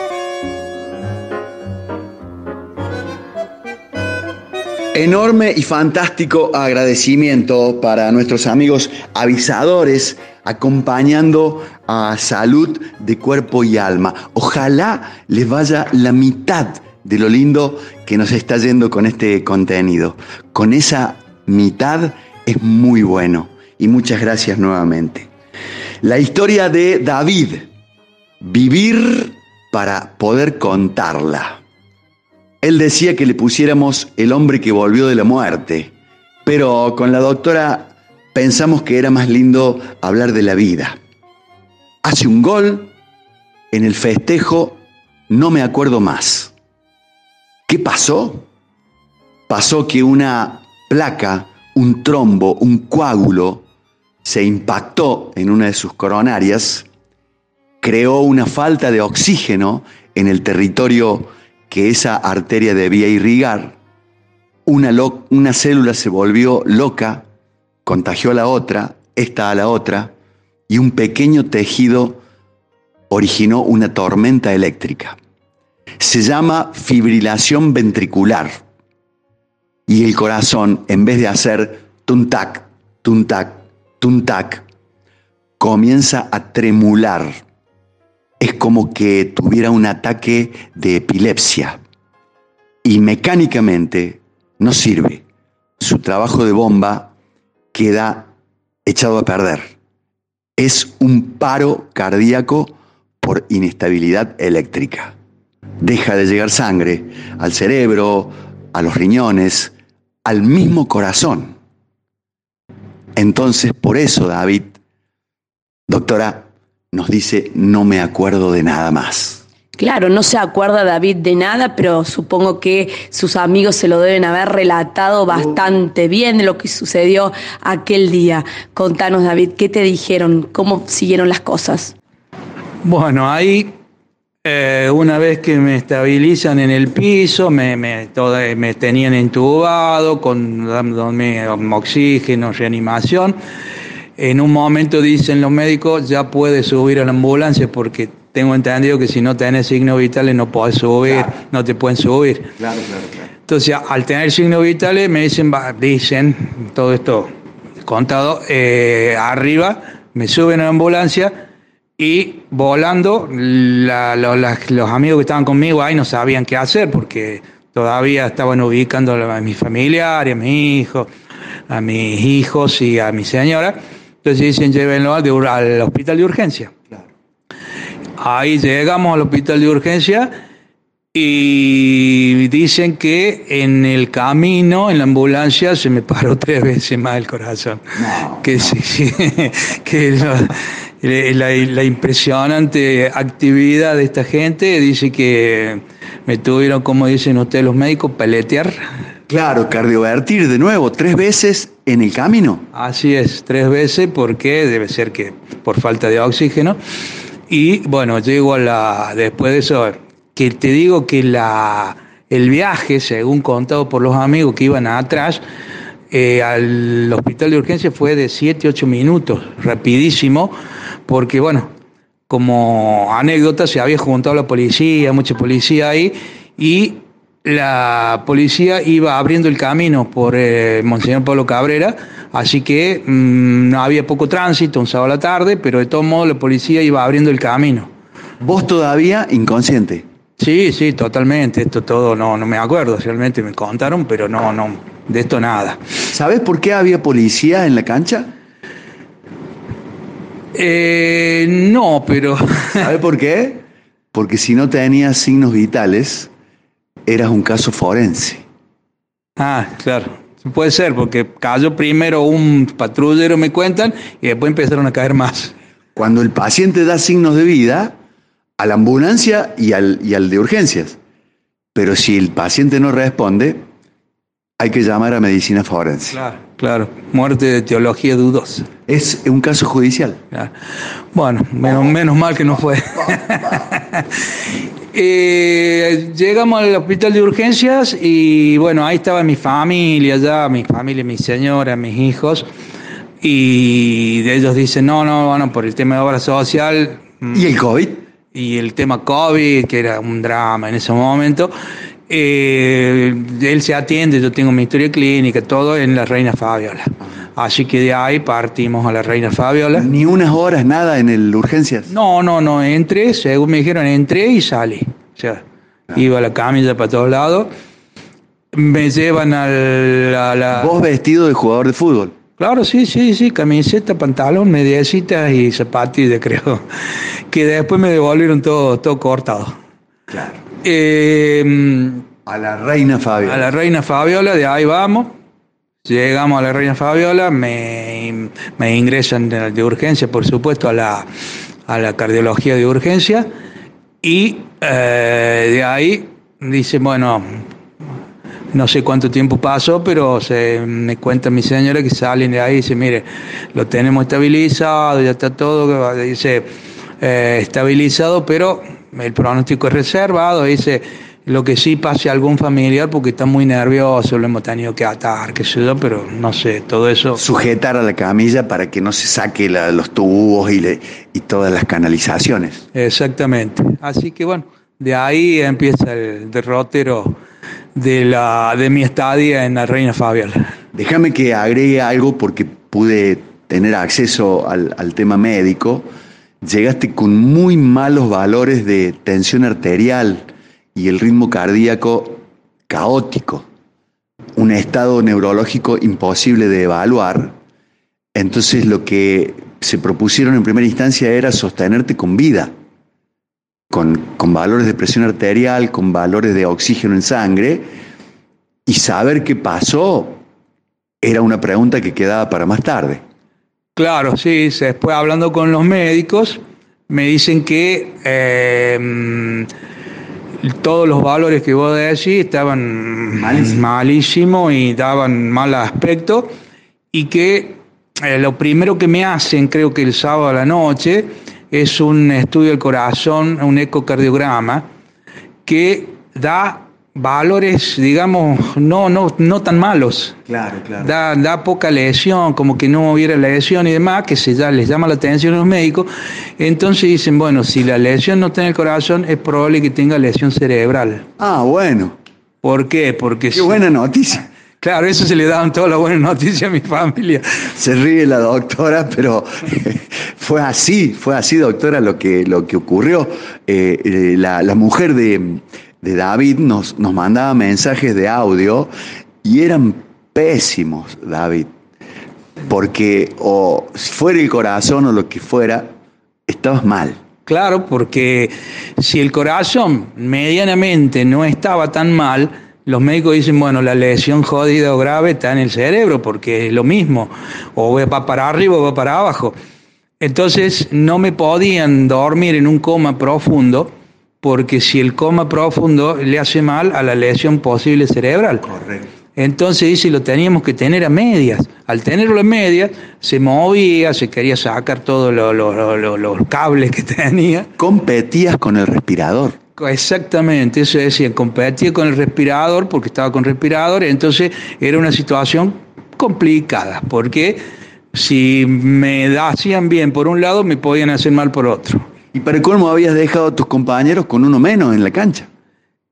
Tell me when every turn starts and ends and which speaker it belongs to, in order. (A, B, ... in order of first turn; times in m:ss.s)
0:04.9-0:25.3 A
0:26.0-0:27.7 A
0:28.4-0:31.6 A
0:32.6-0:35.9 A
0:36.4-0:41.0 A
0:42.0-0:42.9 A
0:43.7-0:46.5 A
0:47.7-0:48.5 A
0:49.5-0:53.6 A
0:54.2-0:56.9 A
0:57.8-1:03.8 A
1:04.7-1:07.2 A
1:07.8-1:10.1 A
1:10.7-1:12.2 A
1:13.1-1:15.2 A
1:16.0-1:18.6 A
1:19.9-1:24.6 A
1:25.6-1:27.4 A
1:28.4-1:31.8 A
1:32.8-1:35.2 A
1:35.8-1:37.1 A
1:37.7-1:38.3 A
1:38.9-1:39.7 A
1:40.6-1:45.1 A
1:45.8-1:51.6 A
1:53.2-1:54.7 A
1:55.9-1:59.4 A
1:59.8-2:12.0 B
2:12.8-2:13.7 C
2:14.4-2:23.4 C
2:24.2-2:32.5 C
2:31.0-2:31.3 A
2:32.6-2:33.3 A
2:33.5-2:37.3 C
2:37.8-2:41.4 C
2:42.0-2:51.1 C
2:51.7-2:56.8 C
2:58.2-3:00.3 C
3:01.1-3:18.8 C
3:08.0-3:08.8 A
3:19.3-3:22.7 A
3:22.7-3:26.8 C
3:27.5-3:35.4 C
3:36.1-3:40.5 C
3:41.1-3:41.7 C
3:42.3-3:57.9 C
3:58.4-4:00.0 A
4:00.4-4:05.8 C
4:06.1-4:08.3 A
4:10.6-4:12.9 C
4:12.8-4:16.3 A
4:17.1-4:18.4 A
4:19.4-4:25.5 C
4:26.0-4:28.0 A
4:28.6-4:31.0 A
4:31.8-4:33.6 A
4:34.6-4:36.2 A
4:36.1-4:38.7 C
4:38.9-4:40.2 A
4:41.1-4:44.1 C
4:43.0-4:43.6 A
4:44.9-4:52.5 C
4:53.2-4:57.4 C
4:57.3-4:58.0 A
4:58.3-5:01.5 C
5:02.1-5:09.9 C
5:09.8-5:11.9 A
5:11.9-5:17.5 C
5:18.5-5:20.7 C
5:20.5-5:22.2 A
5:22.4-5:26.6 C
5:27.3-5:29.6 C
5:30.1-5:30.4 A
5:30.6-5:32.0 C
5:32.3-5:33.5 A
5:33.2-5:35.1 C
5:35.8-5:41.1 C
5:41.7-5:43.3 C
5:44.0-5:47.4 C
5:48.5-5:56.5 C
5:57.0-6:07.2 C
6:07.2-6:12.7 A
6:12.7-6:17.2 C
6:17.8-6:20.5 C
6:20.7-6:25.9 A
6:26.4-6:33.4 A
6:34.4-6:37.4 A
6:38.2-6:42.5 A
6:43.7-6:47.7 A
6:48.7-6:50.2 A
6:51.0-6:53.0 A
6:53.8-6:59.5 C
7:00.4-7:06.3 C
7:03.2-7:03.6 A
7:06.9-7:14.6 C
7:15.5-7:20.2 C
7:20.3-7:20.9 A
7:20.8-7:31.0 C
7:31.2-7:32.0 A
7:32.4-7:33.6 C
7:33.3-7:34.2 A
7:34.6-7:37.2 C
7:37.6-7:48.7 A
7:49.2-7:51.5 A
7:52.5-7:55.7 A
7:56.3-7:57.0 A
7:57.3-8:09.4 C
8:10.0-8:13.7 C
8:14.2-8:18.5 C
8:18.5-8:18.8 A
8:19.2-8:27.5 C
8:27.6-8:29.4 A
8:29.6-8:37.4 C
8:37.9-8:41.9 C
8:42.1-8:45.3 A